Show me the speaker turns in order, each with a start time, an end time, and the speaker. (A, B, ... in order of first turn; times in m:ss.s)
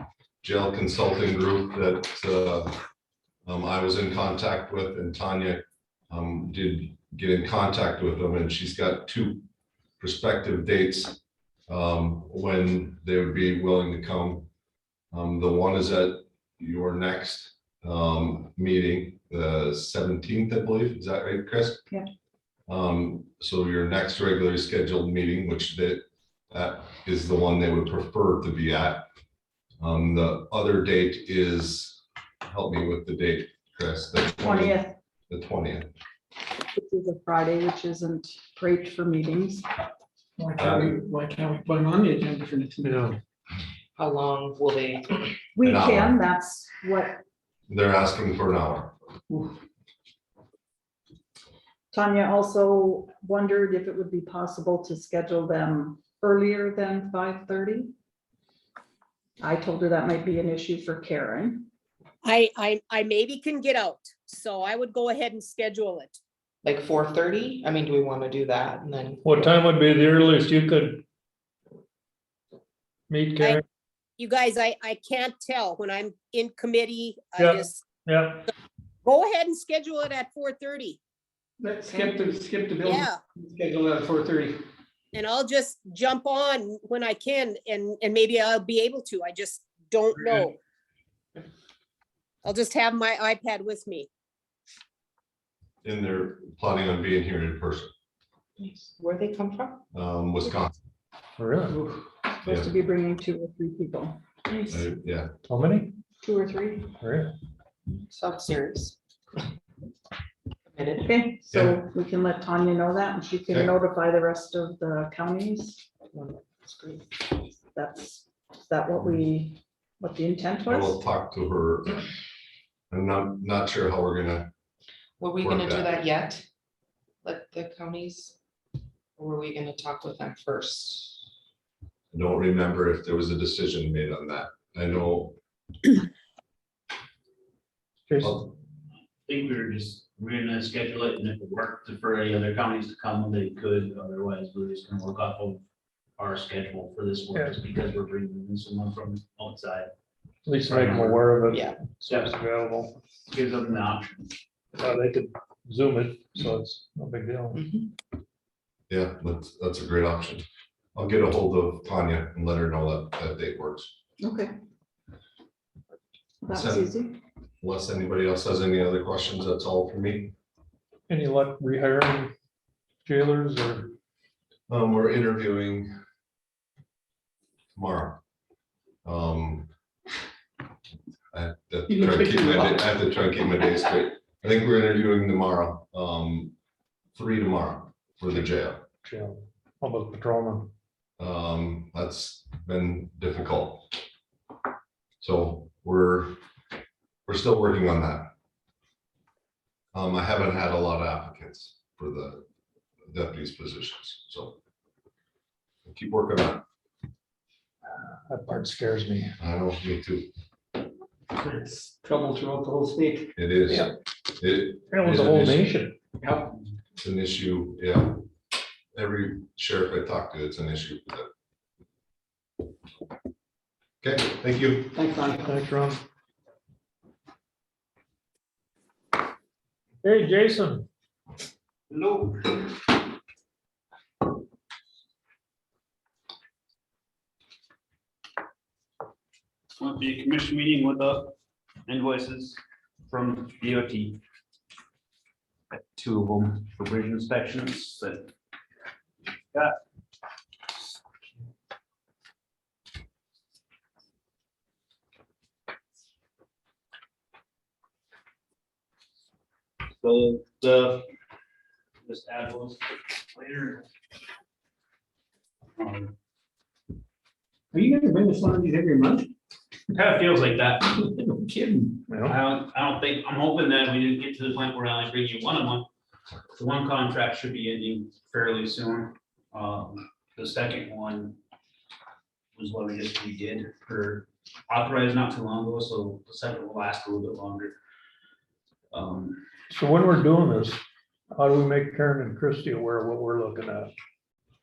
0:00.4-0:02.7 A
0:03.4-0:09.4 A
0:10.0-0:14.5 A
0:15.1-0:21.8 A
0:22.7-0:29.0 A
0:29.8-0:35.9 A
0:34.4-0:35.0 B
0:36.7-0:39.6 B
0:40.4-0:43.0 C
0:40.6-0:41.0 A
0:42.8-0:43.2 D
0:44.0-0:45.2 E
0:45.6-0:47.2 B
0:45.6-0:46.2 A
0:47.7-0:48.9 A
0:51.9-0:57.9 B
0:59.4-1:01.7 B
1:02.2-1:06.2 F
1:06.6-1:09.5 E
1:09.2-1:11.0 D
1:13.1-1:13.6 D
1:14.2-1:17.8 F
1:17.4-1:18.5 D
1:19.0-1:21.0 F
1:21.6-1:24.6 C
1:22.8-1:23.2 F
1:25.1-1:30.6 F
1:32.4-1:34.1 F
1:35.8-1:37.9 A
1:38.6-1:39.8 E
1:39.9-1:40.7 A
1:41.4-1:41.8 D
1:41.7-1:42.0 C
1:42.3-1:44.2 B
1:44.5-1:44.8 E
1:44.7-1:45.3 A
1:45.5-1:46.0 D
1:46.2-1:46.9 B
1:47.0-1:47.3 D
1:48.1-1:49.0 E
1:50.7-1:51.1 E
1:51.0-1:55.8 B
1:51.5-1:51.8 A
1:56.1-1:57.0 E
1:57.6-2:01.0 B
2:00.7-2:02.0 A
2:02.9-2:04.5 A
2:05.2-2:06.4 E
2:05.4-2:06.0 A
2:07.2-2:08.4 E
2:09.2-2:11.2 E
2:12.1-2:15.4 A
2:18.1-2:18.4 D
2:18.2-2:18.5 A
2:19.2-2:25.6 G
2:26.2-2:29.9 G
2:27.3-2:27.6 D
2:30.4-2:32.9 D
2:30.6-2:31.2 G
2:31.5-2:31.8 E
2:32.0-2:32.3 G
2:33.3-2:34.3 G
2:34.8-2:37.6 D
2:37.5-2:37.9 E
2:38.9-2:40.4 A
2:40.9-2:43.9 A
2:44.2-2:44.5 B
2:46.4-2:47.2 B
2:46.5-2:47.0 A
2:47.6-2:50.3 A
2:51.1-2:52.3 D
2:53.0-2:53.9 D
2:54.7-2:55.9 A
2:57.7-2:58.2 A
2:59.0-2:59.7 A
3:01.3-3:06.5 A
3:01.9-3:02.7 C
3:07.1-3:08.8 A
3:09.0-3:10.7 D
3:11.2-3:13.9 A
3:15.2-3:16.4 A
3:17.2-3:18.3 A
3:19.9-3:22.4 A
3:23.1-3:24.6 A
3:25.9-3:26.6 A
3:27.9-3:29.3 D
3:29.4-3:30.3 A
3:31.4-3:33.7 C
3:33.4-3:35.7 A
3:34.9-3:36.0 D
3:36.2-3:36.5 C
3:37.0-3:38.2 A
3:38.9-3:41.3 A
3:44.0-3:45.0 A
3:44.9-3:45.5 C
3:45.4-3:46.0 D
3:50.0-3:50.9 D
3:51.9-3:52.7 G
3:59.8-4:01.3 G
4:01.8-4:04.2 G
4:05.7-4:08.3 G
4:20.0-4:21.0 G
4:22.0-4:23.9 G
4:25.8-4:26.1 G
4:27.7-4:29.3 C
4:29.9-4:31.0 G
4:31.2-4:31.9 C
4:32.1-4:32.4 D
4:32.2-4:35.9 G
4:36.5-4:41.4 G
4:42.6-4:47.7 G
4:48.9-4:49.4 G
4:49.7-4:50.8 D
4:51.3-4:53.9 D